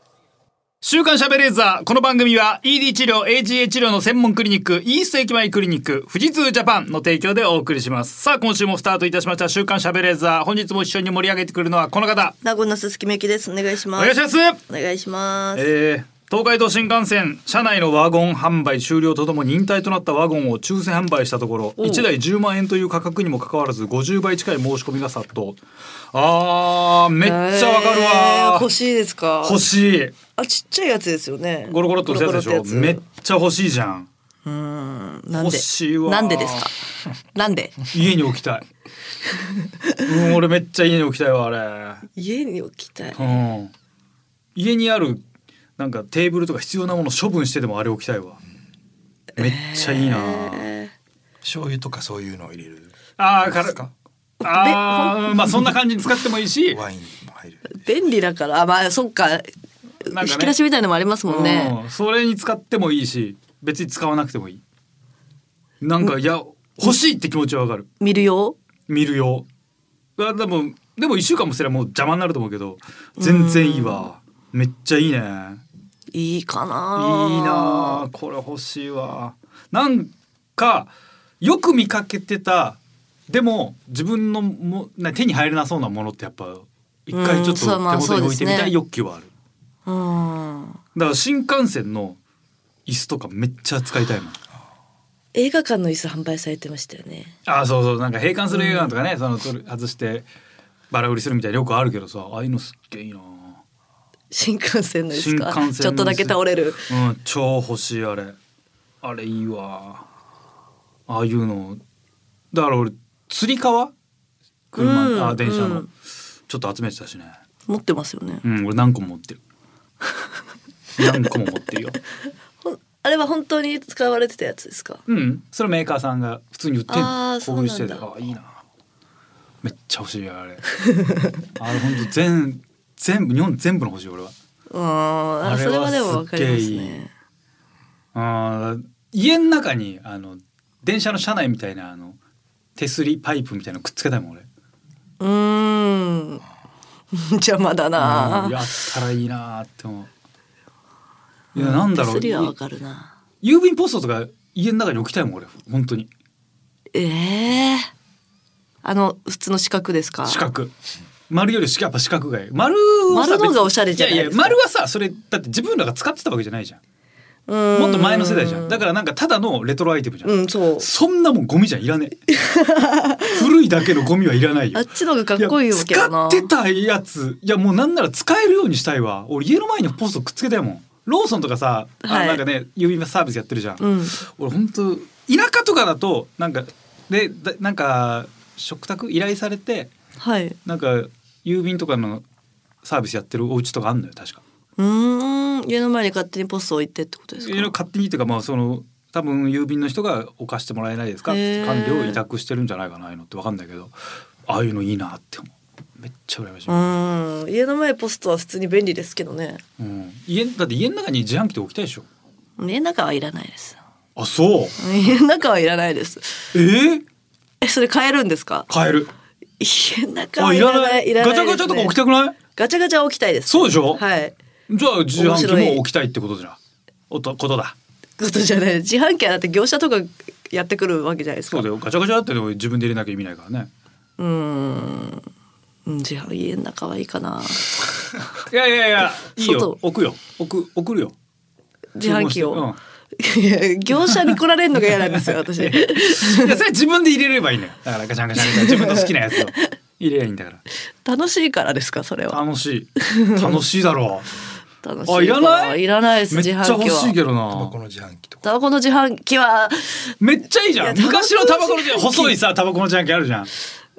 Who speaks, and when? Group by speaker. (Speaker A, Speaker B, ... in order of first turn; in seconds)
Speaker A: 0.8-12.4, 13.9-14.6, 15.5-25.6, 26.1-28.7, 29.4-30.2, 31.7-34.1, 35.3-36.7, 37.9-38.6, 40.0-42.1, 43.1-43.7, 44.5-45.2, 45.8-48.4, 49.4-50.7, 53.2-53.8, 54.4-56.8, 60.1-60.6, 61.3-64.6, 65.8-67.9, 68.9-69.5, 70.2-75.6, 77.0-89.3, 91.0-92.2, 92.9-94.4, 97.5-100.3, 100.9-103.6, 105.1-108.4, 109.0-110.1, 111.1-111.8, 112.5-113.9, 114.7-115.9, 116.5-117.3, 118.4-119.4, 121.0-122.0, 125.1-128.6, 129.6-130.6, 131.6-134.3, 135.4-137.0, 138.1-142.2, 142.8-144.5, 148.0-150.1, 151.5-152.5, 153.4-156.1, 160.2-160.7, 161.3-166.8, 167.7-172.2, 173.2-189.9, 190.7-192.2, 192.8-194.4, 197.4-203.9, 204.5-206.9, 209.8-212.1, 214.2-214.8, 216.5-217.1, 218.7-219.1, 220.4-222.4, 223.5-224.0, 224.7-226.6, 227.1-227.8, 231.5-233.7, 238.3-241.2, 242.0-242.8, 244.0-250.6, 252.3-254.3, 255.1-257.8, 260.2-263.5
Speaker B: 12.4-15.7, 21.8-22.1, 27.2-29.6, 30.4-33.0, 34.5-36.8, 37.3-37.8, 39.5-40.0, 42.1-43.4, 49.4-50.9, 54.4-55.6, 57.7-59.5, 60.0-61.8, 68.0-68.6, 73.2-74.1, 76.1-78.1, 87.1-88.8, 89.9-90.8, 95.3-97.4, 98.5-98.9, 104.3-106.9, 114.8-115.9, 117.7-118.4, 122.6-125.0, 126.9-128.1, 130.8-131.3, 134.7-137.1, 145.2-146.4, 147.1-148.6, 151.5-153.1, 156.9-157.9, 158.8-160.5, 163.1-164.6, 167.5-168.8, 170.2-170.9, 172.3-173.4, 174.7-176.5, 182.0-182.4, 183.8-184.2, 190.2-190.6, 194.8-197.7, 201.3-202.2, 206.7-209.6, 212.6-213.8, 214.8-216.5, 217.6-218.7, 219.6-222.0, 222.5-224.3, 225.2-225.8, 228.2-231.7, 234.2-235.2, 235.9-237.9, 239.4-239.8, 241.9-246.6, 248.5-249.1, 251.0-252.4, 253.0-253.5, 254.8-257.2, 258.4-260.1, 260.8-262.4
Speaker C: 51.4-52.9, 53.5-53.9, 56.7-57.9, 257.5-258.4